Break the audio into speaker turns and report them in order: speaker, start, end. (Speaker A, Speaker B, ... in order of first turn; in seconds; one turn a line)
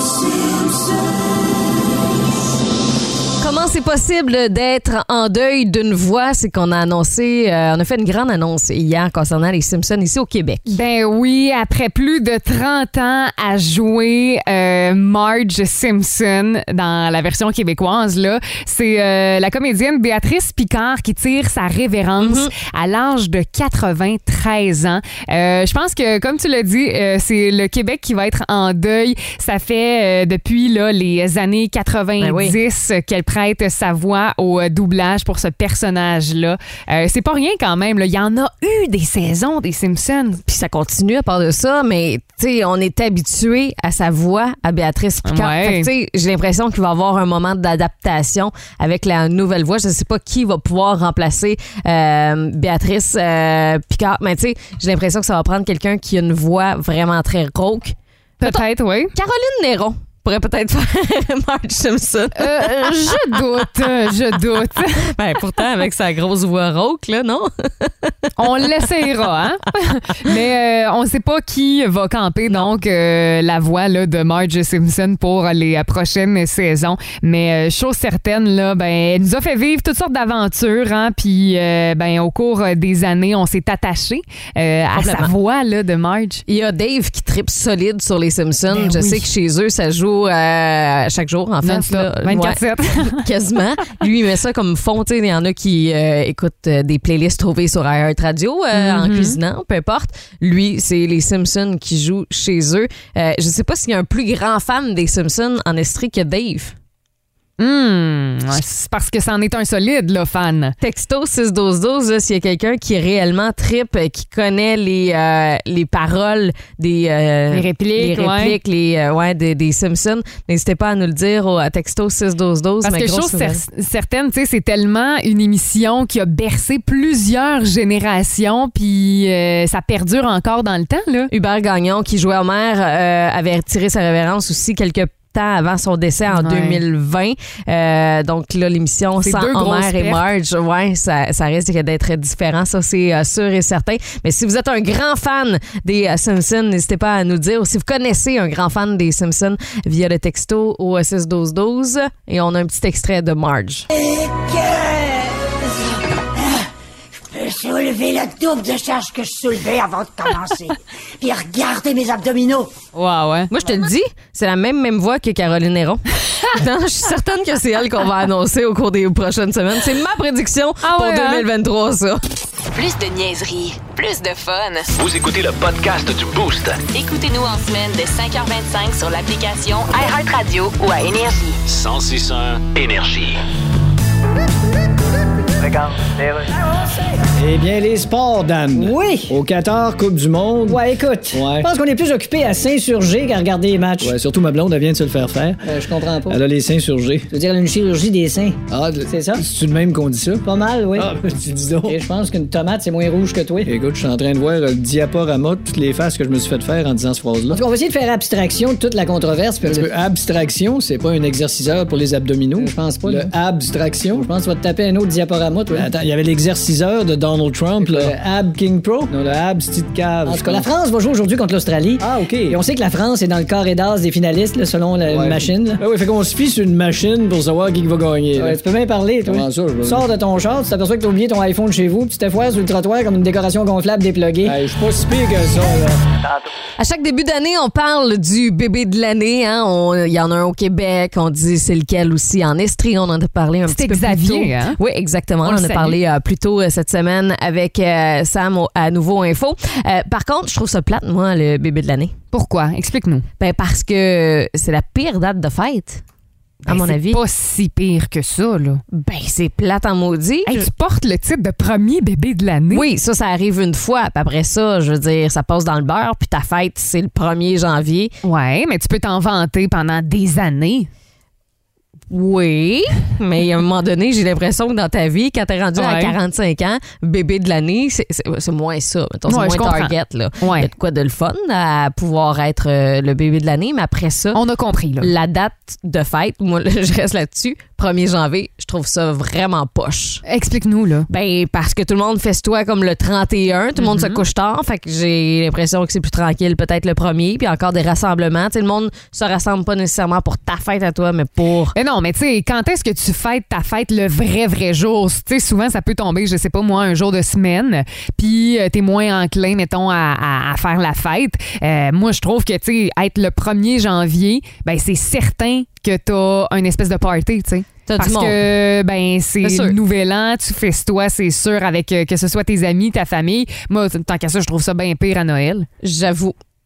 Speaker A: 3.4-10.7
Speaker B: 10.7-40.4
Speaker A: 22.2-22.5
Speaker A: 32.2-32.6
Speaker A: 40.5-64.4
Speaker B: 45.2-45.9
Speaker B: 58.4-59.1
Speaker B: 62.4-65.1
Speaker A: 65.0-68.9
Speaker B: 68.4-86.4
Speaker A: 85.0-85.3
Speaker A: 86.5-106.8
Speaker B: 88.7-89.3
Speaker B: 91.6-93.3
Speaker B: 98.7-99.4
Speaker B: 107.6-110.8
Speaker A: 110.8-123.6
Speaker B: 117.5-118.6
Speaker B: 122.8-131.3
Speaker A: 131.3-153.9
Speaker B: 136.3-136.8
Speaker B: 139.2-140.2
Speaker C: 153.9-156.7
Speaker C: 157.2-162.7
Speaker B: 162.9-163.5
Speaker A: 163.5-172.2
Speaker B: 170.8-171.4
Speaker D: 172.7-174.9
Speaker E: 174.9-176.8
Speaker D: 176.9-181.6
Speaker E: 181.7-183.4
Speaker F: 185.6-186.5
Speaker G: 187.3-190.8
Speaker F: 188.8-189.4
Speaker F: 190.6-194.2
Speaker G: 191.3-191.7
Speaker G: 194.0-195.6
Speaker F: 195.6-196.4
Speaker G: 196.3-197.3
Speaker F: 197.3-199.4
Speaker G: 198.7-202.0
Speaker F: 200.4-201.1
Speaker F: 201.8-203.7
Speaker G: 203.6-207.6
Speaker F: 207.5-209.9
Speaker G: 209.6-214.3
Speaker F: 212.6-213.3
Speaker F: 214.1-215.9
Speaker G: 215.7-220.7
Speaker F: 217.8-218.2
Speaker F: 220.2-225.8
Speaker G: 222.0-222.6
Speaker G: 225.1-228.6
Speaker F: 228.4-234.6
Speaker G: 229.2-230.1
Speaker G: 234.4-236.0
Speaker F: 236.2-236.5
Speaker A: 236.8-252.2
Speaker B: 243.7-244.8
Speaker B: 245.4-246.0
Speaker B: 252.3-253.3
Speaker A: 253.4-256.0
Speaker B: 256.6-258.8
Speaker A: 256.7-257.2
Speaker A: 258.9-260.7
Speaker B: 260.5-262.9
Speaker A: 262.7-268.1
Speaker B: 268.2-270.9
Speaker A: 272.1-284.4
Speaker B: 275.8-276.2
Speaker B: 279.3-280.7
Speaker B: 284.3-285.1
Speaker A: 285.0-290.2
Speaker B: 290.3-291.1
Speaker A: 291.1-301.8
Speaker B: 293.8-294.2
Speaker B: 301.7-325.7
Speaker A: 317.9-318.4
Speaker A: 319.4-319.8
Speaker A: 325.8-326.4